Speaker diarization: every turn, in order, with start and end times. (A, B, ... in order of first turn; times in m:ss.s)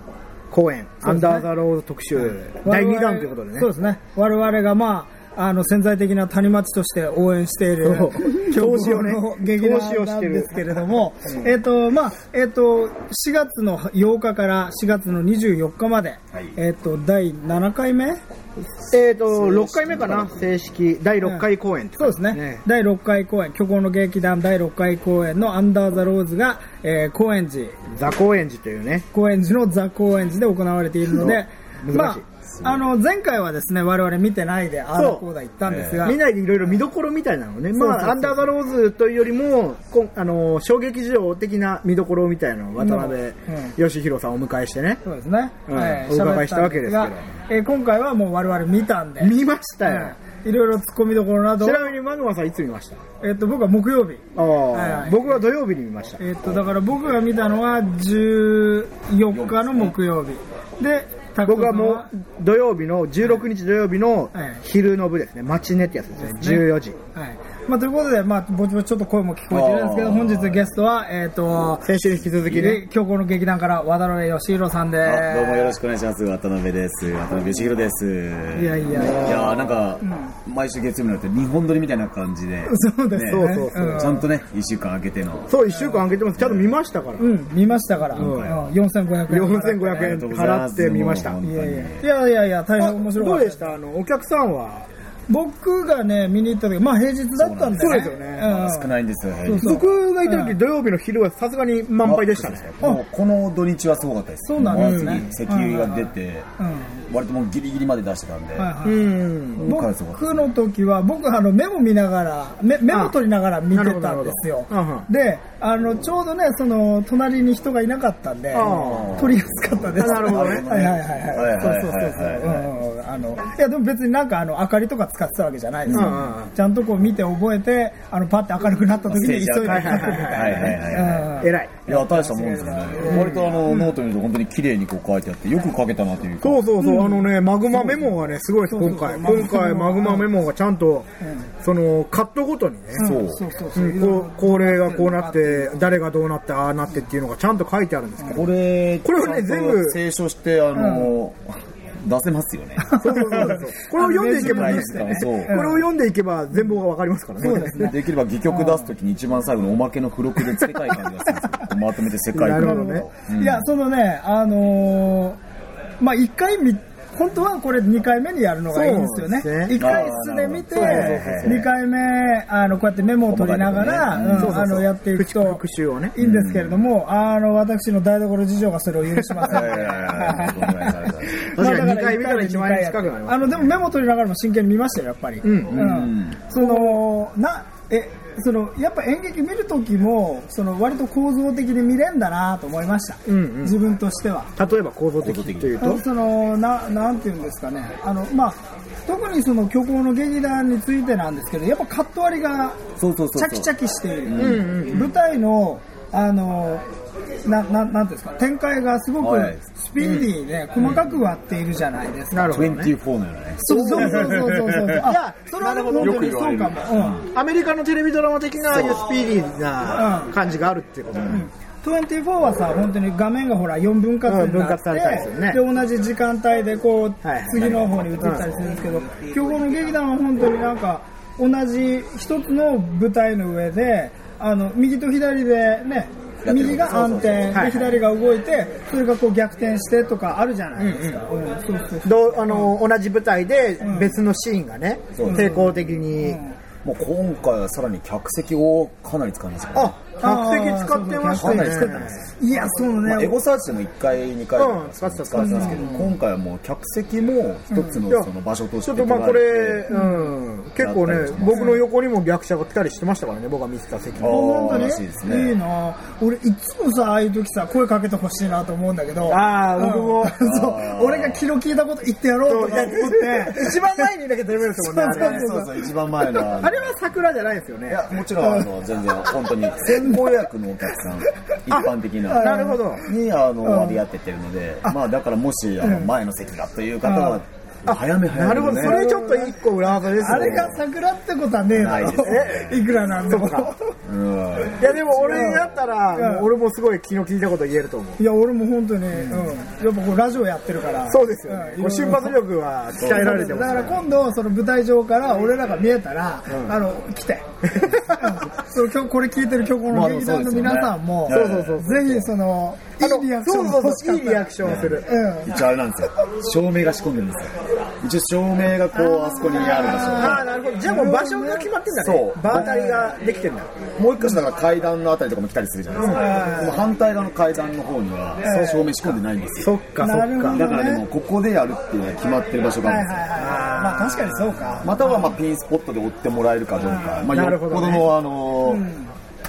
0:00.5-0:03.7 A
0:01.0-0:01.4 B
0:02.2-0:18.2 B
0:07.8-0:11.5 A
0:18.9-0:22.6 A
0:19.3-0:20.5 C
0:22.0-0:27.8 B
0:27.9-0:29.1 A
0:29.1-0:36.2 B
0:31.1-0:32.2 A
0:32.5-0:32.8 C
0:34.9-0:35.2 A
0:35.6-0:36.1 C
0:36.0-0:45.0 A
0:37.8-0:38.5 B
0:42.8-0:43.7 B
0:45.0-0:51.9 B
0:45.7-0:47.2 A
0:49.2-0:50.1 A
0:51.6-0:53.0 A
0:53.2-0:55.4 B
0:54.4-0:56.2 A
0:56.2-1:02.1 B
0:59.3-1:00.0 C
1:01.5-1:07.0 A
1:04.4-1:04.6 B
1:06.2-1:11.9 B
1:09.5-1:10.7 C
1:11.8-1:12.8 A
1:12.1-1:12.8 C
1:12.6-1:15.8 B
1:15.0-1:25.5 C
1:18.6-1:20.3 B
1:19.0-1:19.6 A
1:22.7-1:24.2 B
1:23.2-1:24.2 A
1:25.5-1:27.3 A
1:25.7-1:26.0 B
1:26.4-1:26.7 C
1:27.2-1:30.2 B
1:28.2-1:28.5 A
1:28.2-1:28.6 C
1:29.3-1:31.4 A
1:30.0-1:32.0 C
1:31.4-1:33.8 B
1:32.8-1:34.9 A
1:35.3-1:38.9 B
1:37.4-1:39.8 C
1:37.8-1:38.5 A
1:39.4-1:40.6 B
1:39.6-1:42.7 A
1:42.0-1:46.5 C
1:44.5-1:47.0 B
1:44.7-1:45.3 A
1:47.1-1:48.7 C
1:48.6-2:13.9 B
1:48.8-1:49.7 A
1:49.6-1:50.4 C
1:53.7-1:55.1 A
1:58.5-1:59.2 A
1:58.6-2:02.7 C
2:00.0-2:00.7 A
2:05.9-2:06.3 C
2:05.9-2:06.5 A
2:09.1-2:16.7 C
2:09.6-2:11.8 A
2:13.1-2:13.4 A
2:16.4-2:21.1 A
2:16.8-2:17.2 B
2:17.8-2:18.0 B
2:18.7-2:20.3 B
2:21.2-2:21.5 B
2:21.6-2:23.0 A
2:23.0-2:25.8 B
2:23.0-2:23.4 C
2:23.8-2:28.5 A
2:28.3-2:33.6 C
2:29.0-2:30.0 A
2:30.8-2:31.1 B
2:32.8-2:35.8 B
2:33.0-2:37.9 A
2:34.3-2:35.6 C
2:37.4-2:37.9 B
2:37.4-2:43.6 C
2:38.5-2:38.9 B
2:42.3-2:43.1 A
2:42.6-2:45.4 B
2:46.0-2:55.6 B
2:48.7-2:49.8 A
2:49.8-2:51.7 C
2:50.7-2:51.7 A
2:53.3-2:54.7 C
2:54.4-2:56.2 A
2:56.2-3:14.5 B
2:56.2-2:56.8 C
2:59.4-3:01.5 C
3:01.6-3:03.6 A
3:05.4-3:05.9 A
3:05.7-3:06.4 C
3:06.6-3:07.0 A
3:13.3-3:13.8 A
3:14.6-3:16.0 A
3:15.2-3:15.7 C
3:15.8-3:22.8 B
3:23.0-3:23.7 C
3:23.4-3:26.8 B
3:24.2-3:25.0 C
3:24.3-3:25.1 A
3:27.4-3:32.6 B
3:29.2-3:29.6 C
3:30.0-3:30.3 A
3:32.3-3:32.9 A
3:32.5-3:35.1 C
3:33.6-3:37.2 B
3:33.7-3:34.4 A
3:35.0-3:36.3 A
3:36.0-3:37.3 C
3:37.3-3:41.5 A
3:38.7-3:39.1 C
3:40.0-3:40.3 B
3:41.3-4:02.8 B
3:44.3-3:45.6 A
3:47.2-3:47.6 A
3:47.5-3:48.8 C
3:56.4-3:57.8 C
3:57.5-3:57.9 A
4:00.8-4:01.2 A
4:02.0-4:06.4 A
4:03.8-4:04.2 B
4:05.2-4:06.0 C
4:05.2-4:05.6 B
4:06.2-4:06.6 B
4:06.8-4:10.0 C
4:09.8-4:12.2 A
4:10.2-4:13.4 B
4:11.3-4:12.3 C
4:13.0-4:19.9 C
4:14.6-4:16.0 A
4:15.4-4:16.0 B
4:18.0-4:18.3 A
4:18.8-4:24.8 A
4:19.9-4:20.3 B
4:20.8-4:21.8 C
4:21.5-4:21.8 B
4:24.2-4:25.6 C
4:24.3-4:34.0 B
4:29.3-4:30.4 A
4:30.4-4:31.4 C
4:32.5-4:35.5 A
4:34.8-4:35.9 B
4:35.1-4:36.9 C
4:36.4-4:38.1 A
4:37.9-4:49.1 C
4:38.4-4:38.7 B
4:39.8-4:40.4 B
4:41.7-4:43.0 A
4:42.3-4:43.1 B
4:43.6-4:44.0 B
4:45.8-4:46.1 B
4:47.0-4:47.4 B
4:47.9-4:50.8 A
4:48.7-4:53.9 B
4:50.3-4:50.8 C
4:51.7-4:52.8 C
4:52.0-4:53.7 A
4:54.0-4:55.8 C
4:54.8-4:58.2 A
4:55.3-4:55.6 B
4:56.2-4:56.5 B
4:58.2-5:02.4 B
4:59.2-4:59.5 A
5:01.1-5:04.0 A
5:03.0-5:03.8 C
5:03.0-5:07.4 B
5:06.5-5:06.8 A
5:07.7-5:08.5 A
5:08.1-5:14.5 B
5:09.9-5:12.2 C
5:11.3-5:12.2 A
5:13.0-5:15.1 A
5:14.6-5:20.5 C
5:15.0-5:15.5 B
5:18.9-5:21.7 B
5:19.8-5:23.7 A
5:22.0-5:22.8 C
5:22.5-5:23.2 B
5:24.0-5:29.7 C
5:26.0-5:26.6 A
5:26.1-5:26.9 B
5:28.4-5:29.0 B
5:29.6-5:30.6 A
5:30.0-5:31.0 B
5:30.5-5:33.3 C
5:32.8-5:35.3 B
5:33.4-5:34.8 A
5:34.8-5:38.9 C
5:37.3-5:38.1 A
5:38.6-5:39.1 B